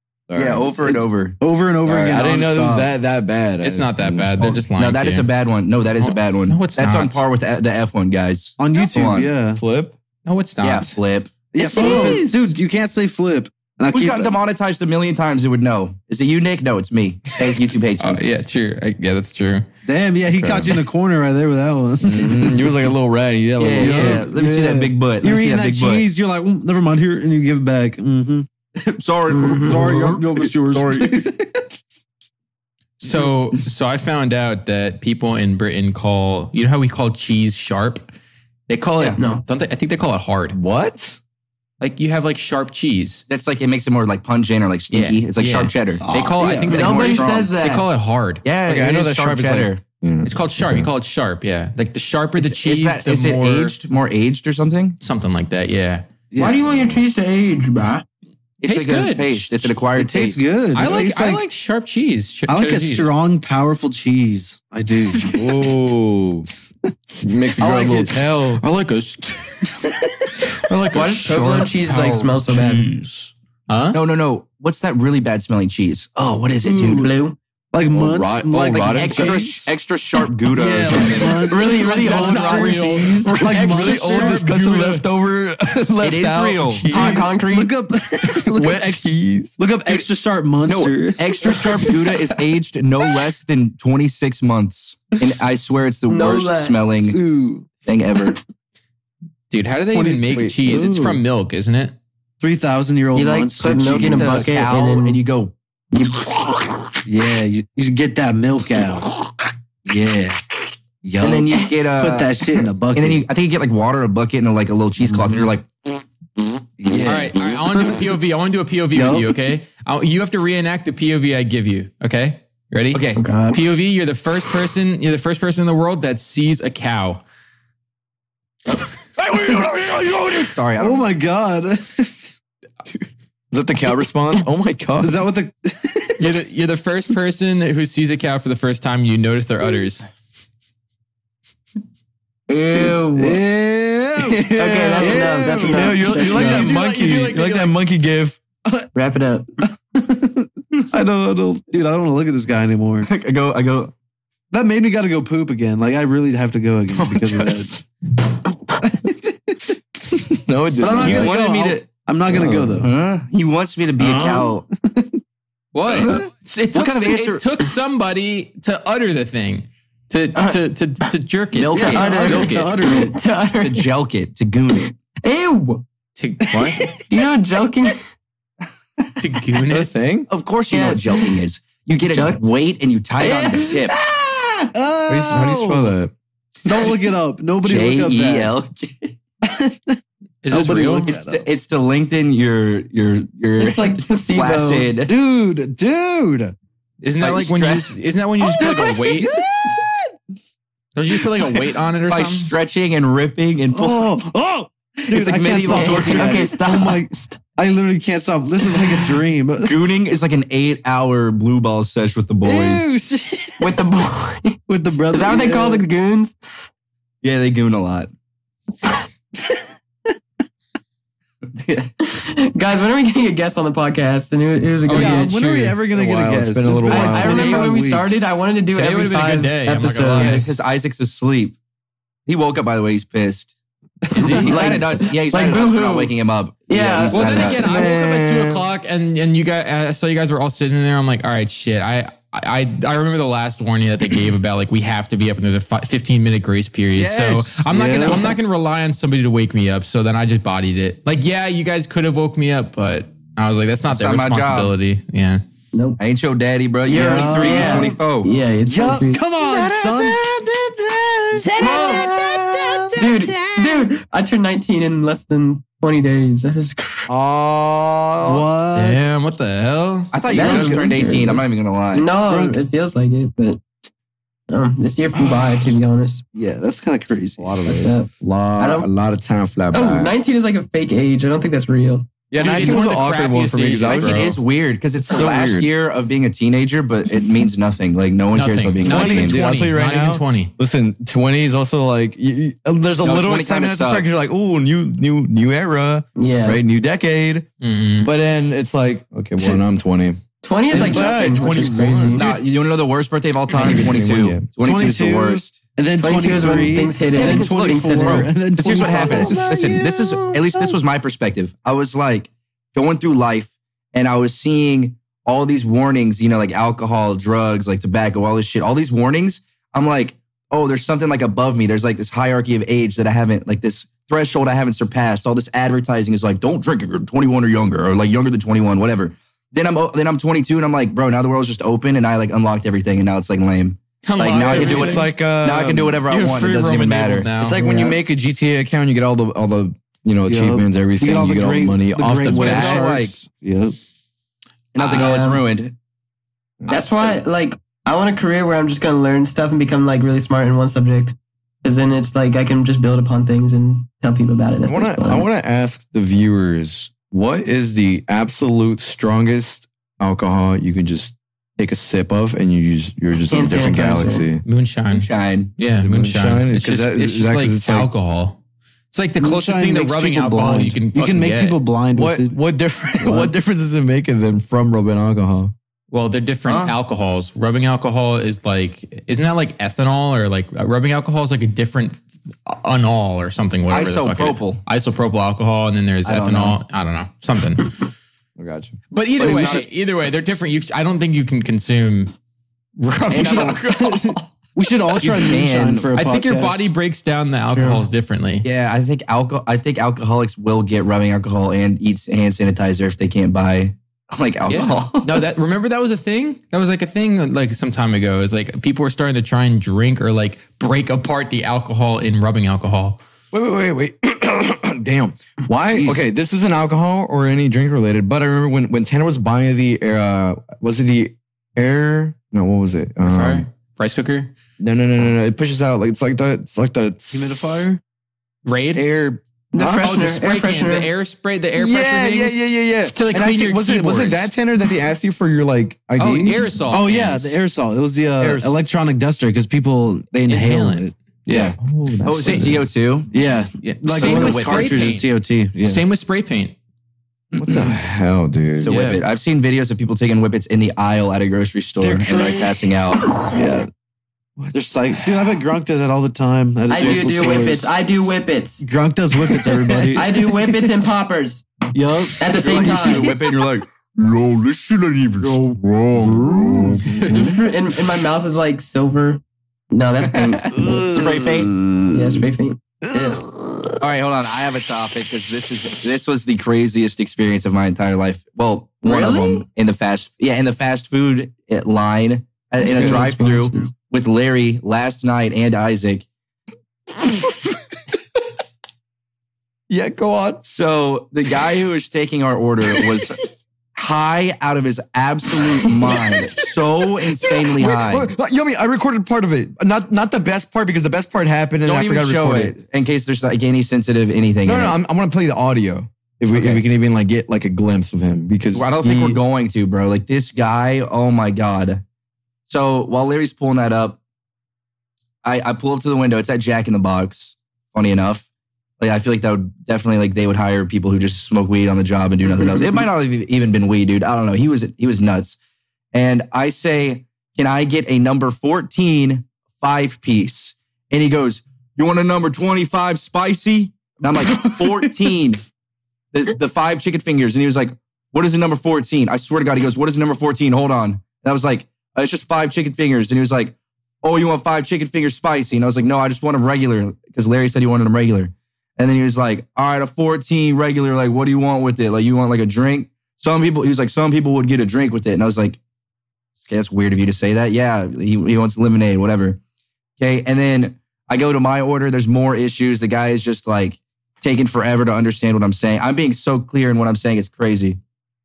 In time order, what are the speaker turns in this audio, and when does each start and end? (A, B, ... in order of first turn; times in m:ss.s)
0:00.3-0:00.8 A
0:00.4-0:01.4 B
0:01.4-0:02.9 C
0:01.8-0:04.6 A
0:03.6-0:05.3 D
0:04.7-0:09.3 B
0:06.0-0:07.2 D
0:08.6-0:09.6 C
0:09.6-0:10.0 A
0:10.2-0:11.0 D
0:10.6-0:12.5 B
0:11.5-0:14.4 C
0:11.8-0:12.1 E
0:13.9-0:18.2 B
0:18.0-0:19.7 D
0:19.8-0:22.9 C
0:20.3-0:20.7 D
0:20.4-0:20.7 A
0:22.0-0:24.2 A
0:23.6-0:24.1 E
0:23.8-0:28.5 C
0:23.8-0:26.0 B
0:28.8-0:31.3 B
0:29.3-0:29.9 E
0:29.6-0:31.6 C
0:33.0-0:38.1 D
0:38.7-0:40.6 D
0:39.2-0:39.4 E
0:40.5-0:41.2 A
0:41.8-0:43.2 D
0:43.3-0:46.0 B
0:44.9-0:48.4 D
0:46.0-0:46.8 C
0:46.7-0:47.5 B
0:46.7-0:47.8 E
0:48.4-0:49.8 B
0:48.6-0:50.9 A
0:50.2-0:53.7 D
0:52.4-0:55.0 B
0:55.0-0:56.0 D
0:56.3-0:56.7 C
0:56.4-0:58.0 E
0:58.6-1:00.4 B
0:58.6-0:59.7 D
0:59.9-1:01.4 C
1:00.7-1:03.1 D
1:02.5-1:05.4 C
1:05.3-1:06.5 A
1:07.2-1:08.6 A
1:07.6-1:08.1 C
1:08.6-1:09.8 D
1:10.5-1:14.0 D
1:10.9-1:12.9 E
1:13.9-1:17.1 B
1:16.7-1:17.0 C
1:16.8-1:17.4 E
1:17.7-1:19.6 C
1:17.9-1:19.6 A
1:18.7-1:21.6 B
1:20.5-1:24.6 C
1:21.4-1:23.4 E
1:21.7-1:25.0 D
1:23.4-1:27.3 A
1:26.0-1:26.9 B
1:26.9-1:27.7 E
1:26.9-1:32.3 C
1:28.2-1:29.5 A
1:30.6-1:37.2 B
1:36.1-1:37.0 E
1:37.0-1:37.7 C
1:37.8-1:38.4 B
1:39.5-1:42.0 D
1:39.9-1:41.2 C
1:40.3-1:40.9 A
1:42.4-1:44.5 C
1:43.1-1:45.2 E
1:43.9-1:45.5 B
1:45.9-1:46.5 E
1:47.0-1:49.1 C
1:49.8-1:53.2 C
1:51.2-1:52.4 B
1:52.9-1:55.7 B
1:55.0-1:55.4 C
1:56.8-1:58.0 C
1:57.0-2:07.2 D
1:58.9-1:59.4 C
2:02.9-2:03.2 B
2:03.2-2:03.6 E
2:09.2-2:12.4 C
2:10.4-2:11.1 B
2:13.5-2:15.2 A
2:15.0-2:16.5 C
2:16.2-2:20.1 D
2:22.5-2:23.4 E
2:22.7-2:27.7 C
2:24.2-2:28.4 A
2:24.5-2:26.7 E
2:26.3-2:27.6 D
2:28.9-2:29.5 E
2:29.9-2:33.1 C
2:33.0-2:33.9 B
2:34.5-2:37.8 C
2:37.0-2:37.6 A
2:38.8-2:39.6 C
2:40.3-2:41.3 A
2:40.8-2:42.9 C
2:40.9-2:41.8 B
2:42.3-2:42.8 A
2:42.8-2:44.6 B
2:44.0-2:45.2 C
2:45.7-2:52.9 D
2:45.9-2:46.2 B
2:46.7-2:47.4 B
2:51.5-2:52.4 B
2:51.7-2:53.2 C
2:51.9-2:53.9 E
2:53.6-2:55.0 B
2:55.2-2:55.8 E
2:56.2-2:57.0 D
2:56.5-2:57.0 C
2:57.1-2:58.0 E
2:59.2-2:59.9 D
2:59.7-3:00.3 A
3:00.3-3:03.9 B
3:00.7-3:01.4 E
3:02.1-3:02.4 E
3:03.2-3:03.8 E
3:03.9-3:05.9 C
3:05.1-3:06.1 A
3:06.6-3:08.5 C
3:07.6-3:09.1 B
3:09.4-3:10.0 C
3:10.4-3:11.1 D
3:10.5-3:11.4 C
3:11.1-3:15.1 B
3:13.6-3:14.9 E
3:15.0-3:16.5 C
3:17.0-3:19.3 D
3:17.2-3:17.9 B
3:18.4-3:20.1 C
3:20.9-3:22.5 D
3:21.2-3:21.6 C
3:22.1-3:24.1 B
3:23.7-3:29.8 C
3:25.1-3:26.5 B
3:25.6-3:27.4 E
3:29.6-3:33.0 B
3:32.4-3:33.8 C
3:33.6-3:36.6 E
3:34.7-3:35.8 C
3:37.2-3:38.1 B
3:41.6-3:41.9 B
3:42.0-3:45.4 E
3:44.9-3:45.8 D
3:44.9-3:48.2 C
3:45.9-3:47.6 A
3:46.9-3:50.5 E
3:47.3-3:47.6 B
3:48.7-3:50.5 D
3:50.1-3:51.6 B
3:52.3-3:53.5 B
3:54.1-3:54.5 C
3:54.2-3:54.8 D
3:54.2-3:56.1 E
3:54.3-3:57.6 B
3:56.7-3:57.6 E
3:57.1-4:15.4 D
3:57.5-3:58.7 A
4:07.0-4:07.6 B
4:07.7-4:08.4 C
4:13.9-4:14.7 B
4:15.7-4:16.0 E
4:16.0-4:18.3 B
4:16.9-4:19.2 E
4:16.9-4:17.9 C
4:18.6-4:20.4 C
4:19.4-4:23.0 A
4:21.3-4:23.8 C
4:21.6-4:22.2 E
4:22.9-4:27.1 E
4:27.1-4:28.4 A
4:28.2-4:29.1 C
4:28.7-4:30.1 D
4:30.1-4:32.1 B
4:30.3-4:31.4 E
4:30.4-4:30.9 C
4:31.9-4:33.6 E
4:32.3-4:32.6 C
4:34.5-4:36.2 E
4:35.1-4:35.7 C
4:36.3-4:37.6 C
4:37.4-4:40.2 A
4:37.6-4:38.9 E
4:39.7-4:42.1 E
4:42.3-4:44.4 A
4:42.4-4:44.3 D
4:42.4-4:42.8 C
4:43.9-4:49.4 B
4:45.1-4:45.7 A
4:48.3-4:50.5 D
4:48.8-4:57.5 A
4:53.0-4:54.2 B
4:56.2-4:56.6 E
4:57.6-4:58.1 D
4:58.0-5:02.2 A
5:00.4-5:02.3 E
5:00.7-5:02.1 C
5:02.1-5:05.6 B
5:03.5-5:04.5 A
5:04.6-5:10.7 C
5:06.0-5:08.3 E
5:07.1-5:37.3 B
5:09.0-5:09.5 A
5:34.0-5:35.1 D
5:34.4-5:36.0 A
5:34.5-5:35.0 C
5:36.1-5:37.6 D
5:37.4-5:42.9 A
5:37.6-5:37.9 C
5:40.3-5:43.8 C
5:42.2-5:43.2 B
5:44.7-5:45.7 B
5:44.8-5:45.2 D
5:44.9-5:45.4 E
5:46.7-5:55.2 E
5:46.7-5:47.1 B
5:54.6-6:04.4 A
6:03.3-6:04.2 E
6:04.4-6:08.4 D
6:04.9-6:05.5 B
6:05.8-6:07.9 A
6:08.9-6:11.6 D
6:09.2-6:12.4 C
6:11.9-6:15.5 A
6:13.0-6:13.3 C
6:15.9-6:27.7 D
6:16.4-6:16.7 B
6:23.7-6:24.6 B
6:26.0-6:26.6 B
6:28.4-6:29.5 A
6:28.9-6:32.1 D
6:29.2-6:29.7 B
6:32.8-6:34.3 D
6:33.1-6:33.6 B
6:33.2-6:36.7 C
6:35.0-6:35.9 B
6:36.0-6:38.4 D
6:37.5-6:37.8 C
6:38.4-6:45.2 B
6:44.5-6:53.0 D
6:53.3-7:03.4 A
7:03.0-7:04.3 D
7:04.6-7:07.7 A
7:07.1-7:07.8 C
7:08.4-7:08.9 D
7:08.7-7:09.9 A
7:09.5-7:10.9 E
7:09.8-7:14.3 D
7:11.6-7:16.4 A
7:16.0-7:17.4 D
7:16.7-7:21.6 C
7:18.2-7:18.6 A
7:20.3-7:21.5 D
7:21.3-7:22.7 A
7:22.0-7:23.1 B
7:23.1-7:25.8 C
7:23.6-7:25.1 D
7:24.0-7:24.5 A
7:25.6-7:26.5 D
7:27.3-7:27.7 B
7:27.4-7:28.7 A
7:28.6-7:33.0 B
7:28.6-7:29.0 D
7:31.8-7:33.7 C
7:34.5-7:37.7 C
7:36.7-7:38.6 E
7:36.7-7:37.5 B
7:38.6-7:40.3 C
7:39.9-7:41.4 E
7:41.7-7:42.2 C
7:42.2-7:43.1 E
7:42.3-7:45.5 B
7:45.2-7:47.3 A
7:46.0-7:46.8 C
7:46.6-7:51.3 E
7:50.1-7:51.5 B
7:50.5-7:52.2 A
7:51.9-7:52.6 E
7:52.9-7:53.2 A
7:53.8-8:06.0 B
7:58.8-7:59.4 E
8:02.6-8:03.6 C
8:02.6-8:03.3 A
8:09.7-8:10.5 A
8:10.4-8:13.2 B
8:13.7-8:18.1 B
8:15.8-8:16.2 A
8:17.4-8:22.5 A
8:21.6-8:24.8 B
8:24.4-8:29.2 A
8:26.3-8:26.6 B
8:28.5-8:31.8 B
8:32.4-8:34.0 B
8:35.2-8:38.3 B
8:38.8-8:45.4 B
8:45.9-8:55.5 B
8:56.1-9:15.6 B
9:16.4-9:19.4 B
9:20.0-9:27.8 B